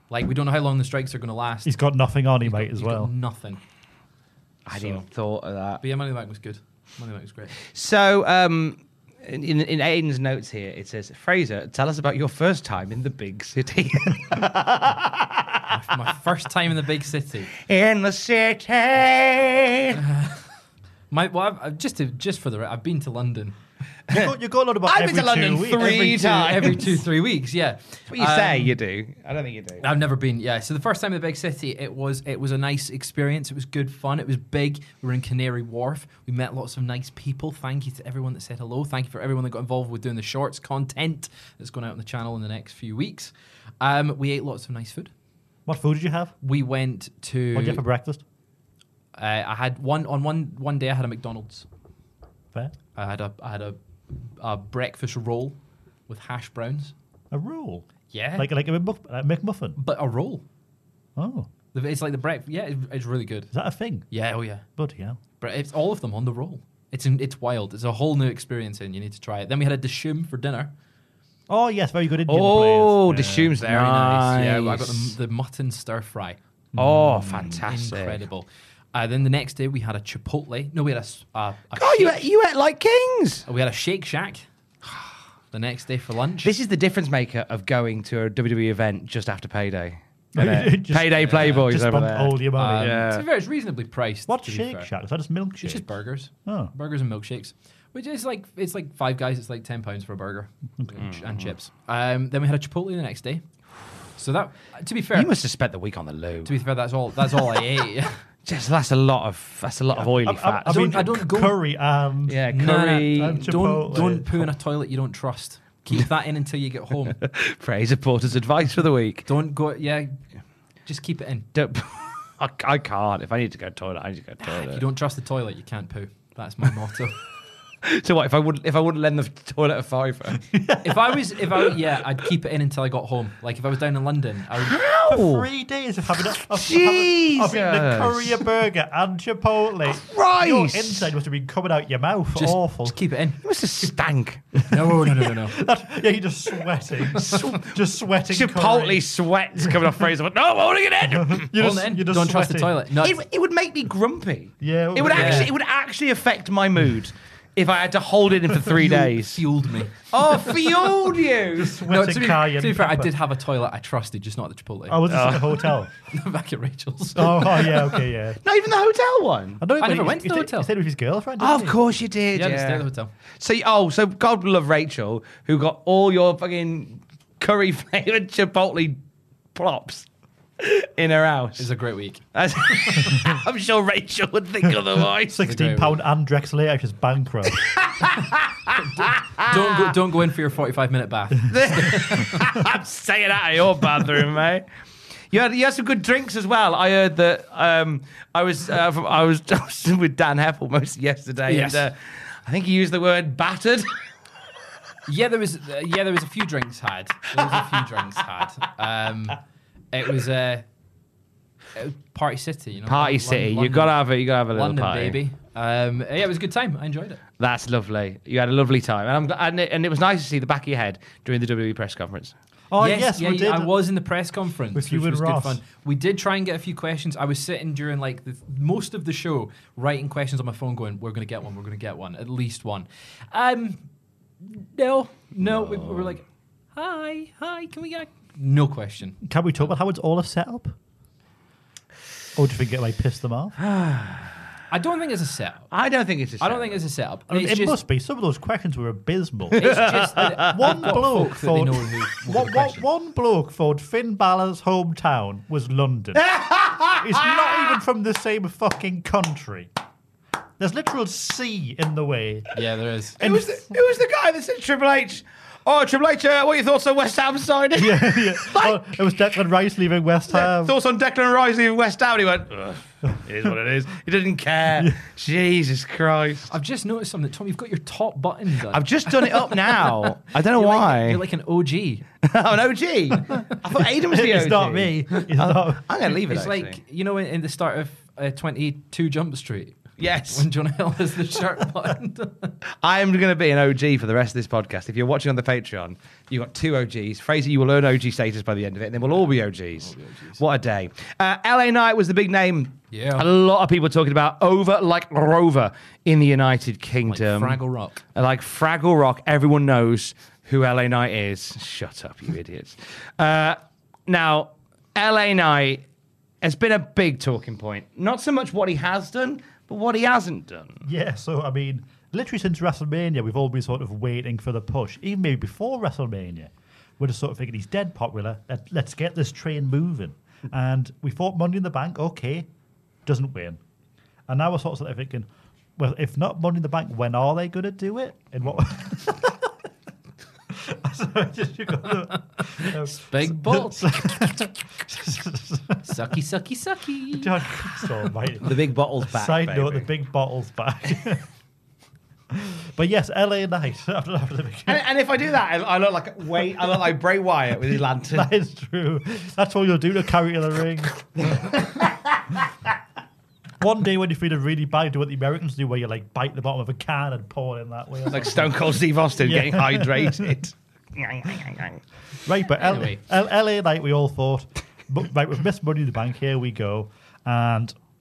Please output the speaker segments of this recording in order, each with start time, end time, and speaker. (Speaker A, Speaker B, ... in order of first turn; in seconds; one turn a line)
Speaker A: 0.1-1.8
Speaker B: 1.6-3.1
Speaker A: 2.4-3.6
Speaker C: 4.7-5.8
Speaker A: 4.7-5.0
Speaker A: 5.8-7.6
Speaker C: 7.7-15.6
Speaker A: 15.7-17.5
Speaker C: 17.6-20.0
Speaker A: 19.9-20.4
Speaker A: 21.1-23.6
Speaker B: 24.1-26.6
Speaker C: 24.9-27.0
Speaker A: 26.1-28.8
Speaker C: 28.1-29.9
Speaker A: 29.8-45.1
Speaker B: 45.7-46.4
Speaker A: 46.4-47.8
Speaker B: 47.5-48.2
Speaker A: 49.1-51.7
Speaker A: 53.0-55.6
Speaker A: 56.1-56.9
Speaker B: 57.3-59.8
Speaker A: 58.1-58.5
Speaker A: 59.8-60.4
Speaker B: 61.2-61.5
Speaker A: 61.7-63.5
Speaker B: 63.5-64.1
Speaker A: 64.1-64.7
Speaker B: 64.7-65.2
Speaker A: 65.4-70.7
Speaker B: 71.5-73.6
Speaker C: 72.3-75.2
Speaker A: 73.6-76.4
Speaker B: 76.7-77.6
Speaker C: 76.8-78.2
Speaker A: 77.6-82.2
Speaker C: 81.8-83.5
Speaker A: 83.5-84.5
Speaker A: 85.5-86.5
Speaker C: 86.4-93.3
Speaker B: 90.4-93.1
Speaker A: 91.2-91.7
Speaker A: 92.6-94.9
Speaker B: 94.3-95.9
Speaker A: 95.6-103.4
Speaker B: 96.5-96.7
Speaker C: 101.0-101.5
Speaker A: 104.2-105.3
Speaker C: 105.1-106.5
Speaker A: 106.5-108.2
Speaker C: 108.5-111.0
Speaker B: 110.0-112.5
Speaker A: 110.7-111.6
Speaker C: 112.3-113.5
Speaker A: 112.5-117.2
Speaker B: 113.1-114.5
Speaker C: 117.2-119.3
Speaker A: 119.3-120.2
Speaker A: 120.9-121.5
Speaker C: 121.5-124.8
Speaker A: 124.4-127.2
Speaker C: 127.8-130.5
Speaker B: 130.5-131.4
Speaker A: 130.8-134.8
Speaker C: 134.7-135.5
Speaker B: 135.1-143.0
Speaker C: 136.5-138.4
Speaker C: 139.9-141.1
Speaker A: 142.3-143.4
Speaker C: 143.4-144.6
Speaker A: 144.7-145.6
Speaker B: 144.7-150.1
Speaker C: 147.2-147.7
Speaker C: 148.3-151.5
Speaker B: 151.2-152.8
Speaker A: 151.5-153.2
Speaker C: 153.0-159.4
Speaker B: 154.6-155.5
Speaker A: 155.1-155.5
Speaker A: 158.8-159.9
Speaker C: 160.1-161.8
Speaker B: 161.6-163.1
Speaker A: 161.8-165.4
Speaker B: 164.9-165.9
Speaker C: 165.1-165.6
Speaker A: 166.0-168.0
Speaker B: 167.2-168.4
Speaker C: 168.4-169.6
Speaker B: 169.6-171.8
Speaker A: 169.8-170.7
Speaker C: 171.4-172.8
Speaker A: 172.3-173.1
Speaker C: 173.4-179.0
Speaker C: 179.6-180.1
Speaker C: 180.6-181.7
Speaker A: 181.6-183.1
Speaker C: 182.3-185.4
Speaker B: 185.3-187.7
Speaker A: 185.4-186.0
Speaker C: 187.6-189.8
Speaker A: 188.8-192.4
Speaker C: 191.5-194.7
Speaker C: 195.3-203.9
Speaker A: 201.5-201.9
Speaker A: 205.1-209.4
Speaker A: 209.9-210.7
Speaker A: 211.8-213.9
Speaker C: 212.9-215.2
Speaker A: 214.5-217.2
Speaker C: 217.4-222.3
Speaker B: 222.7-223.8
Speaker A: 222.8-233.9
Speaker B: 224.7-225.6
Speaker A: 234.4-236.2
Speaker C: 235.4-236.2
Speaker A: 236.8-239.2
Speaker B: 239.2-240.8
Speaker B: 242.4-243.6
Speaker C: 243.6-244.3
Speaker A: 244.7-245.7
Speaker C: 245.7-246.8
Speaker A: 246.4-247.8
Speaker B: 247.3-256.3
Speaker A: 249.6-252.8
Speaker C: 249.6-250.7
Speaker C: 256.1-257.4
Speaker B: 257.0-259.7
Speaker B: 260.6-262.5
Speaker A: 262.6-263.2
Speaker B: 263.2-263.7
Speaker C: 263.2-268.8
Speaker B: 267.8-270.8
Speaker C: 270.3-276.5
Speaker A: 276.5-282.1
Speaker C: 278.7-281.2
Speaker C: 282.2-286.8
Speaker B: 284.0-285.9
Speaker A: 286.1-292.5
Speaker C: 290.0-290.5
Speaker C: 292.8-307.6
Speaker A: 299.8-300.4
Speaker A: 302.9-303.3
Speaker A: 307.1-308.0
Speaker C: 308.1-315.8
Speaker C: 316.4-320.8
Speaker B: 320.8-332.5
Speaker B: 333.1-333.6
Speaker B: 334.3-339.6
Speaker B: 340.5-345.8
Speaker A: 342.4-344.5
Speaker A: 345.8-347.9
Speaker B: 347.1-351.3
Speaker C: 348.4-349.9
Speaker B: 352.3-354.8
Speaker C: 354.7-358.3
Speaker B: 358.1-361.5
Speaker C: 361.3-361.6
Speaker B: 363.6-368.6
Speaker C: 368.1-371.8
Speaker B: 369.2-370.4
Speaker B: 372.2-377.8
Speaker A: 372.6-373.0